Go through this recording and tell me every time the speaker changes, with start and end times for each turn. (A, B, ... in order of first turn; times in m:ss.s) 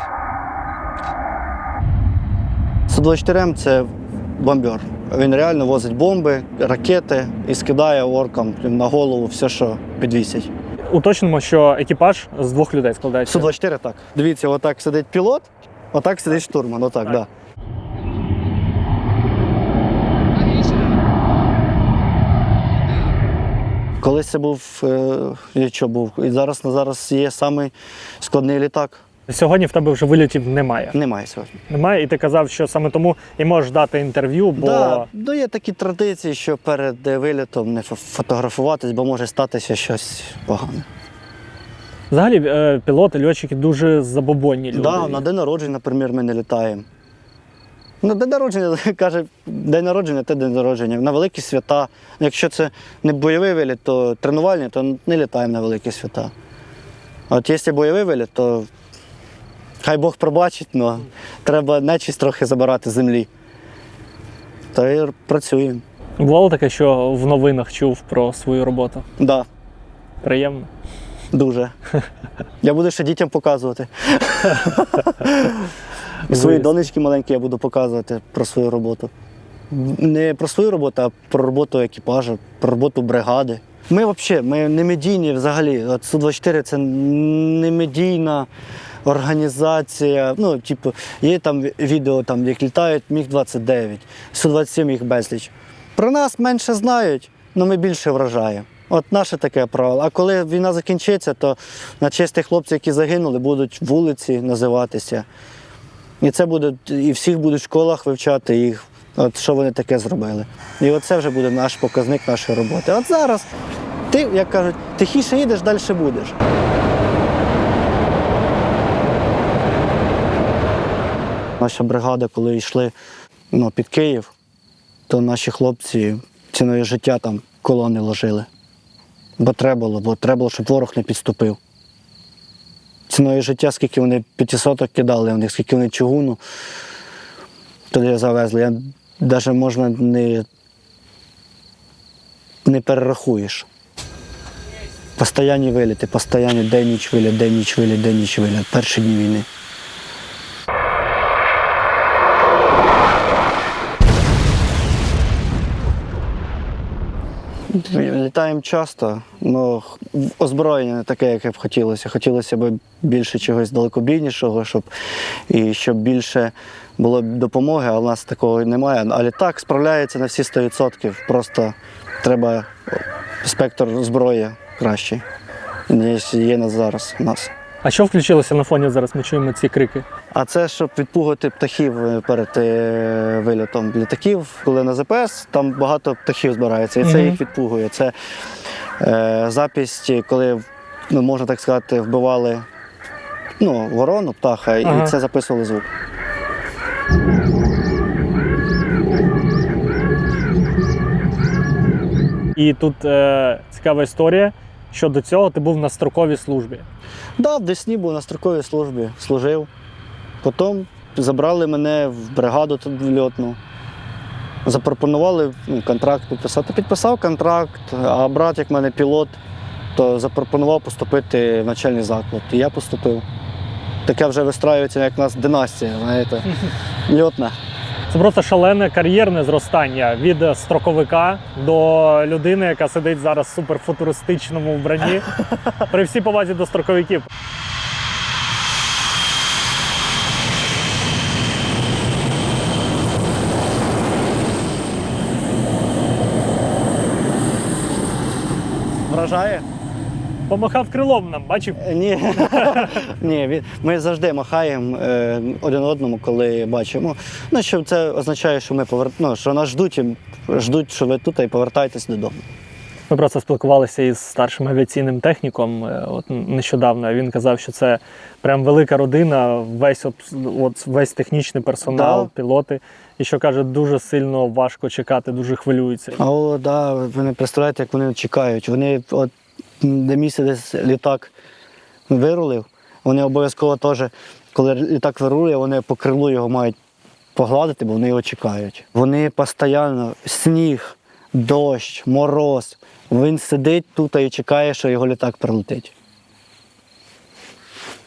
0:02.9-0:10.5 A
0:10.9-0:13.5 B
0:13.3-0:17.3 A
0:24.0-0:29.0 A
0:29.3-0:31.0 B
0:30.9-0:31.5 A
0:31.7-0:35.1 B
0:34.6-0:40.9 A
0:42.1-0:45.2 B
0:44.7-0:46.9 A
0:48.0-0:56.3 A
0:57.3-0:58.7 A
0:59.8-1:03.3 A
1:04.7-1:05.8 A
1:06.2-1:09.1 B
1:09.2-1:09.4 A
1:10.2-1:10.7 B
1:11.3-1:11.7 A
1:12.6-1:15.7 A
1:16.3-1:19.1 A
1:16.3-1:16.8 B
1:19.7-1:28.5 A
1:29.0-1:45.3 A
1:46.2-1:53.5 A
1:54.1-1:56.4 A
2:01.6-2:03.0 A
2:03.5-2:04.3 A
2:05.1-2:08.5 A
2:09.4-2:11.6 A
2:13.1-2:16.4 A
2:17.9-2:20.4 A
2:22.6-2:23.7 A
2:25.2-2:29.5 A
2:37.7-2:44.9 A
2:45.5-2:55.2 A
2:55.9-2:57.5 A
2:57.8-3:00.1 B
3:00.3-3:08.1 A
3:07.0-3:07.4 B
3:09.0-3:12.7 A
3:13.6-3:15.9 A
3:14.8-3:15.1 B
3:22.6-3:26.9 B
3:27.4-3:29.7 A
3:30.4-3:33.6 A
3:34.6-3:39.4 A
3:39.9-3:43.2 A
3:44.1-3:46.6 A
3:47.1-3:47.6 A
3:48.1-3:57.3 B
4:09.1-4:09.6 A
4:10.5-4:11.8 B
4:11.8-4:22.4 A
4:12.4-4:12.9 B
4:23.1-4:36.2 B
4:31.8-4:32.3 A
4:36.2-4:41.3 A
4:42.1-4:46.8 A
4:47.4-4:55.9 A